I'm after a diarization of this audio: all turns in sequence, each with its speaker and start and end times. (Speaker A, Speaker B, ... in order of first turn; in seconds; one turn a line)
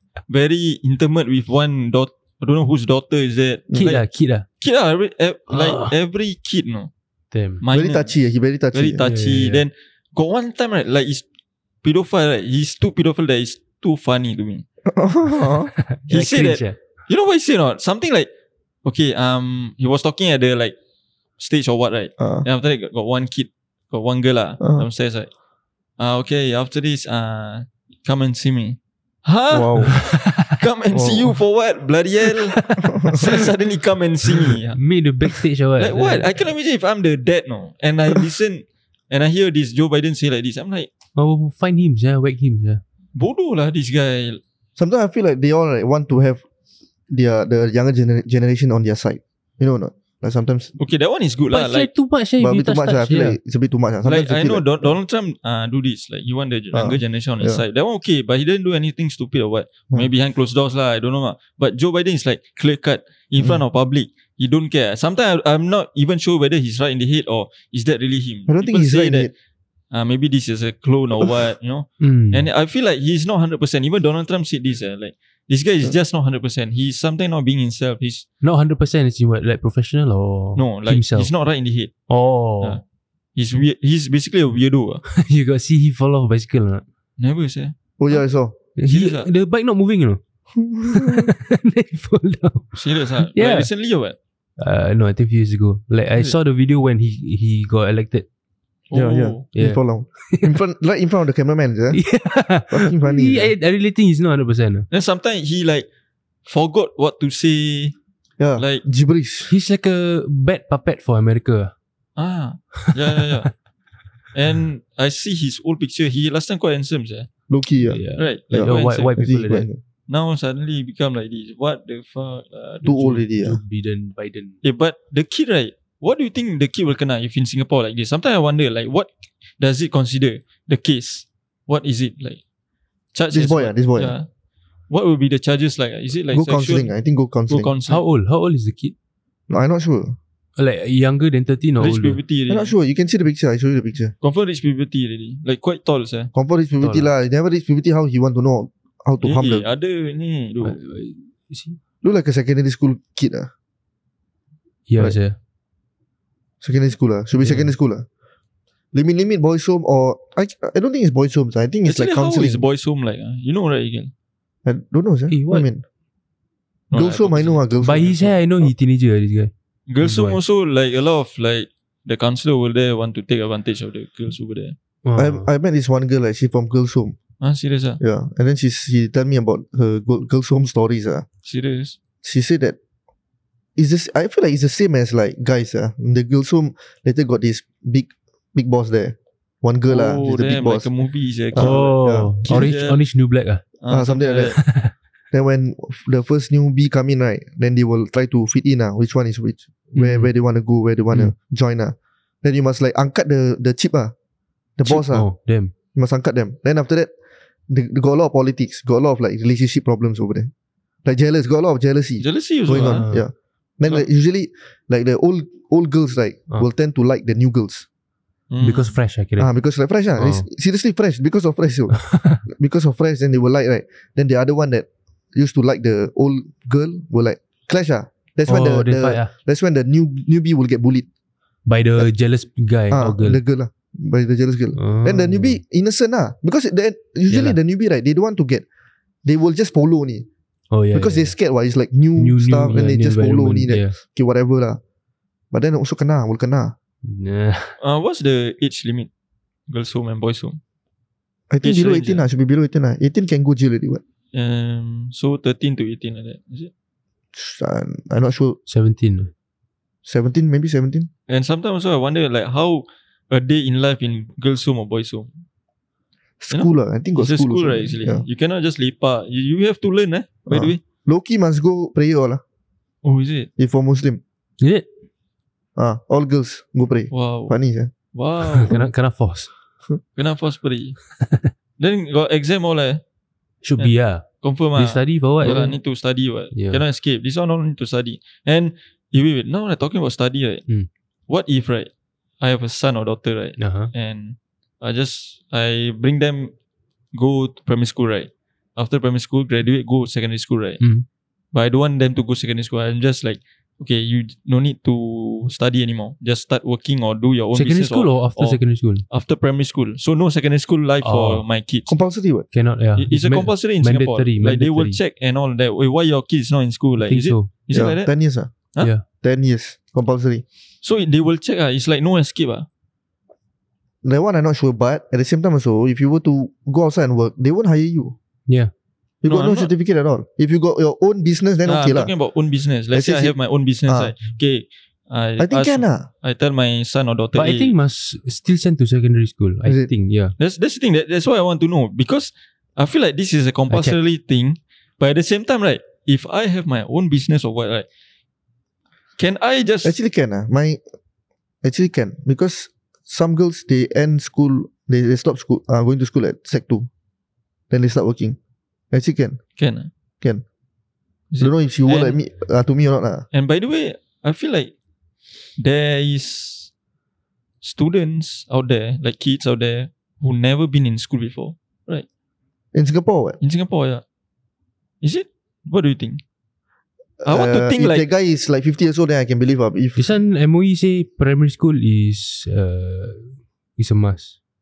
Speaker A: 0.3-4.1
Speaker B: 3.7-4.5
Speaker A: 4.6-6.9
Speaker B: 5.5-5.9
Speaker B: 7.3-7.6
Speaker A: 7.6-8.2
Speaker C: 7.7-9.0
Speaker A: 8.7-11.2
Speaker B: 9.0-9.6
Speaker A: 11.8-14.7
Speaker C: 14.9-15.7
Speaker B: 15.9-16.8
Speaker A: 16.1-18.3
Speaker A: 18.9-20.8
Speaker A: 21.4-25.3
Speaker C: 22.2-22.5
Speaker C: 24.6-24.9
Speaker A: 26.0-34.8
Speaker C: 29.5-30.0
Speaker C: 30.9-31.4
Speaker B: 32.5-32.8
Speaker C: 32.8-33.2
Speaker B: 34.8-36.3
Speaker A: 35.8-40.9
Speaker B: 41.2-42.8
Speaker A: 43.1-44.4
Speaker C: 44.8-46.4
Speaker C: 47.1-50.7
Speaker A: 50.8-51.9
Speaker B: 51.5-53.4
Speaker C: 52.4-54.9
Speaker A: 54.0-69.3
Speaker C: 56.7-57.6
Speaker C: 68.5-69.3
Speaker A: 69.9-78.3
Speaker B: 72.0-72.5
Speaker B: 78.4-81.3
Speaker A: 80.6-81.9
Speaker B: 82.1-82.8
Speaker A: 83.4-85.0
Speaker B: 85.1-86.8
Speaker A: 87.2-87.8
Speaker C: 88.0-88.5
Speaker B: 88.8-90.2
Speaker A: 88.9-89.3
Speaker C: 90.6-91.3
Speaker B: 90.9-93.7
Speaker A: 92.8-94.2
Speaker B: 94.6-98.3
Speaker A: 98.9-99.4
Speaker C: 98.9-102.0
Speaker B: 99.5-100.5
Speaker B: 101.9-104.9
Speaker C: 102.7-103.5
Speaker A: 104.9-105.9
Speaker A: 106.5-108.0
Speaker C: 108.4-109.5
Speaker A: 108.6-108.8
Speaker B: 109.5-111.7
Speaker A: 112.2-113.5
Speaker A: 114.3-117.3
Speaker C: 117.5-119.8
Speaker B: 117.8-119.7
Speaker A: 118.2-119.2
Speaker A: 120.1-123.0
Speaker C: 122.8-123.6
Speaker B: 122.8-124.6
Speaker A: 124.6-132.4
Speaker A: 133.1-134.3
Speaker C: 133.3-134.2
Speaker A: 134.9-136.9
Speaker C: 136.3-137.7
Speaker A: 137.5-138.1
Speaker B: 137.9-138.9
Speaker C: 139.5-140.2
Speaker B: 140.6-142.2
Speaker A: 141.8-142.7
Speaker C: 142.5-144.1
Speaker A: 144.2-146.3
Speaker C: 146.3-149.7
Speaker B: 146.8-147.1
Speaker A: 149.2-150.8
Speaker B: 150.6-151.8
Speaker C: 152.0-153.5
Speaker B: 154.9-155.4
Speaker C: 156.6-158.1
Speaker B: 157.4-157.7
Speaker C: 158.9-162.6
Speaker A: 161.8-164.1
Speaker C: 164.7-165.8
Speaker B: 165.3-165.7
Speaker A: 166.9-168.3
Speaker C: 166.9-168.3
Speaker B: 167.8-170.4
Speaker A: 169.9-174.8
Speaker B: 175.1-175.5
Speaker C: 175.2-177.2
Speaker A: 177.4-178.0
Speaker C: 178.0-181.2
Speaker A: 181.4-182.0
Speaker C: 182.2-182.8
Speaker C: 183.8-190.9
Speaker A: 189.9-191.9
Speaker C: 191.5-192.7
Speaker B: 191.6-193.6
Speaker A: 192.5-193.0
Speaker A: 193.8-194.6
Speaker C: 193.9-194.6
Speaker B: 194.6-194.9
Speaker C: 195.3-204.1
Speaker B: 199.9-200.3
Speaker C: 204.8-205.3
Speaker B: 204.8-205.7
Speaker C: 205.9-207.1
Speaker C: 207.7-210.5
Speaker C: 211.1-217.9
Speaker A: 212.2-213.1
Speaker B: 212.8-213.3
Speaker A: 218.5-218.9
Speaker B: 218.6-219.5
Speaker C: 219.4-231.1
Speaker B: 220.2-220.5
Speaker B: 222.0-222.4
Speaker B: 228.5-229.3
Speaker B: 231.7-233.4
Speaker C: 232.9-238.7
Speaker B: 234.8-235.6
Speaker B: 237.3-237.6
Speaker C: 239.2-240.3
Speaker B: 240.7-241.3
Speaker C: 240.9-244.8
Speaker B: 242.2-244.0
Speaker C: 245.5-246.7
Speaker B: 247.0-247.8
Speaker A: 247.8-249.1
Speaker A: 249.7-250.6
Speaker C: 251.5-254.0
Speaker A: 251.6-252.2
Speaker A: 254.3-256.7
Speaker C: 257.3-258.6
Speaker B: 258.7-259.3
Speaker C: 260.1-261.1
Speaker A: 261.3-265.3
Speaker C: 266.4-268.2
Speaker A: 266.5-270.8
Speaker C: 270.5-272.4
Speaker A: 273.0-273.5
Speaker C: 273.6-274.2
Speaker B: 274.6-274.9
Speaker C: 275.8-277.9
Speaker A: 277.1-277.6
Speaker A: 278.1-278.8
Speaker B: 278.6-279.5
Speaker A: 280.2-281.0
Speaker B: 281.2-281.5
Speaker A: 281.8-283.0
Speaker B: 283.6-285.8
Speaker A: 283.8-290.7
Speaker B: 286.5-286.8
Speaker A: 291.3-296.5
Speaker B: 293.6-293.9
Speaker A: 297.1-300.8
Speaker B: 300.8-301.1
Speaker A: 301.5-311.9
Speaker B: 307.5-309.1
Speaker B: 311.0-311.4
Speaker C: 311.9-312.5
Speaker B: 312.5-315.0
Speaker A: 313.0-318.1
Speaker B: 317.0-317.5
Speaker C: 317.7-318.5
Speaker C: 319.2-320.4
Speaker A: 320.8-322.7
Speaker C: 324.0-328.2
Speaker C: 329.2-332.1
Speaker A: 329.3-329.7
Speaker A: 331.6-337.7
Speaker C: 332.9-333.3
Speaker C: 333.9-334.1
Speaker C: 335.4-336.1
Speaker B: 337.4-340.4
Speaker C: 339.7-339.9
Speaker A: 340.4-347.9
Speaker B: 343.7-344.0
Speaker A: 349.2-350.0
Speaker C: 349.8-350.8
Speaker C: 351.6-356.9
Speaker C: 357.7-358.4
Speaker C: 358.9-359.4
Speaker A: 359.6-359.9
Speaker A: 361.3-362.2
Speaker C: 361.4-363.2
Speaker A: 363.3-364.7
Speaker A: 365.6-366.7
Speaker A: 367.6-372.1
Speaker C: 372.7-373.4
Speaker A: 373.4-374.0
Speaker A: 375.0-376.2
Speaker C: 377.2-380.0
Speaker A: 377.3-378.1
Speaker B: 380.0-384.4